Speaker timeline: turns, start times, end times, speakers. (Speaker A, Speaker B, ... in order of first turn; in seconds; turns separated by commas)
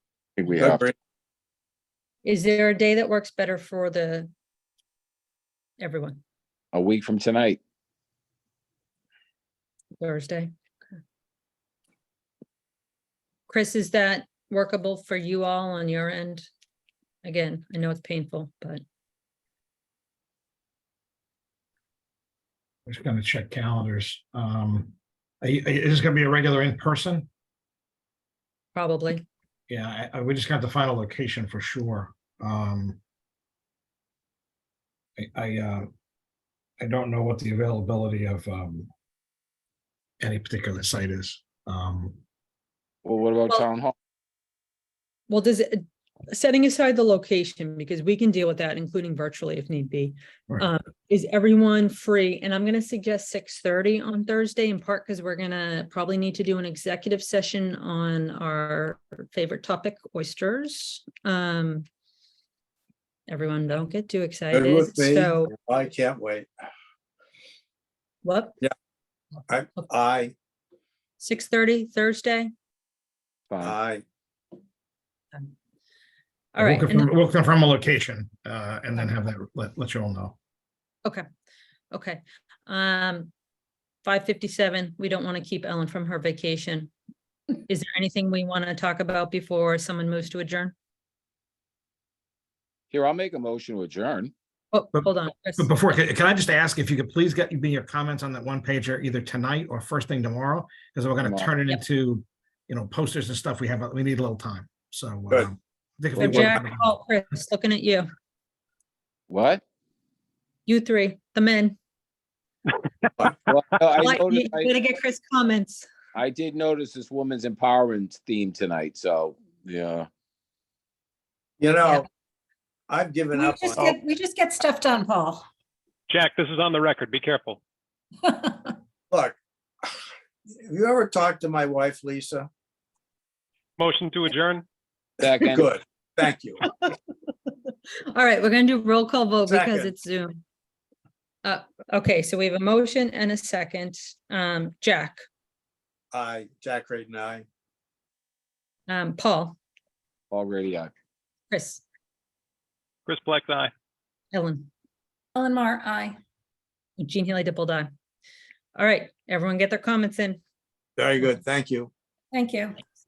Speaker A: 0.4-0.8, Speaker B: 0.6-0.9, Speaker C: 2.2-4.3, Speaker C: 5.8-6.2, Speaker A: 6.7-7.6, Speaker C: 10.0-10.5, Speaker C: 13.5-16.5, Speaker C: 17.2-18.8, Speaker D: 22.9-27.3, Speaker C: 28.8-29.2, Speaker D: 29.7-33.0, Speaker D: 35.2-35.9, Speaker D: 36.8-38.9, Speaker D: 40.2-42.2, Speaker A: 43.0-43.9, Speaker C: 45.3-61.9, Speaker C: 63.3-65.5, Speaker B: 64.5-66.5, Speaker C: 68.2-68.6, Speaker B: 69.5-70.3, Speaker C: 71.2-72.5, Speaker A: 73.5-73.8, Speaker B: 73.6-74.0, Speaker C: 76.5-77.1, Speaker D: 76.6-80.4, Speaker C: 81.9-83.3, Speaker C: 84.0-86.9, Speaker C: 87.7-90.7, Speaker A: 92.9-94.3, Speaker C: 94.7-95.7, Speaker D: 94.9-106.9, Speaker A: 101.2-101.5, Speaker C: 106.2-108.1, Speaker A: 109.3-109.6, Speaker C: 110.7-111.8, Speaker A: 113.5-114.7, Speaker C: 114.0-115.9, Speaker A: 116.2-120.1, Speaker B: 121.6-122.1, Speaker B: 122.9-124.0, Speaker E: 123.3-125.5, Speaker F: 126.1-127.6, Speaker E: 128.3-128.7, Speaker B: 129.1-129.9, Speaker B: 130.6-132.5, Speaker F: 133.8-134.6, Speaker A: 135.2-135.7, Speaker B: 135.2-136.7, Speaker C: 138.1-140.4, Speaker B: 139.5-139.9, Speaker C: 141.4-145.2, Speaker B: 146.1-147.4, Speaker C: 148.9-149.6, Speaker A: 150.3-150.9, Speaker C: 151.5-151.8, Speaker F: 153.1-153.7, Speaker C: 154.3-154.7, Speaker E: 155.3-156.2, Speaker C: 157.0-157.9, Speaker C: 158.8-160.4, Speaker B: 161.0-161.9, Speaker E: 162.3-162.8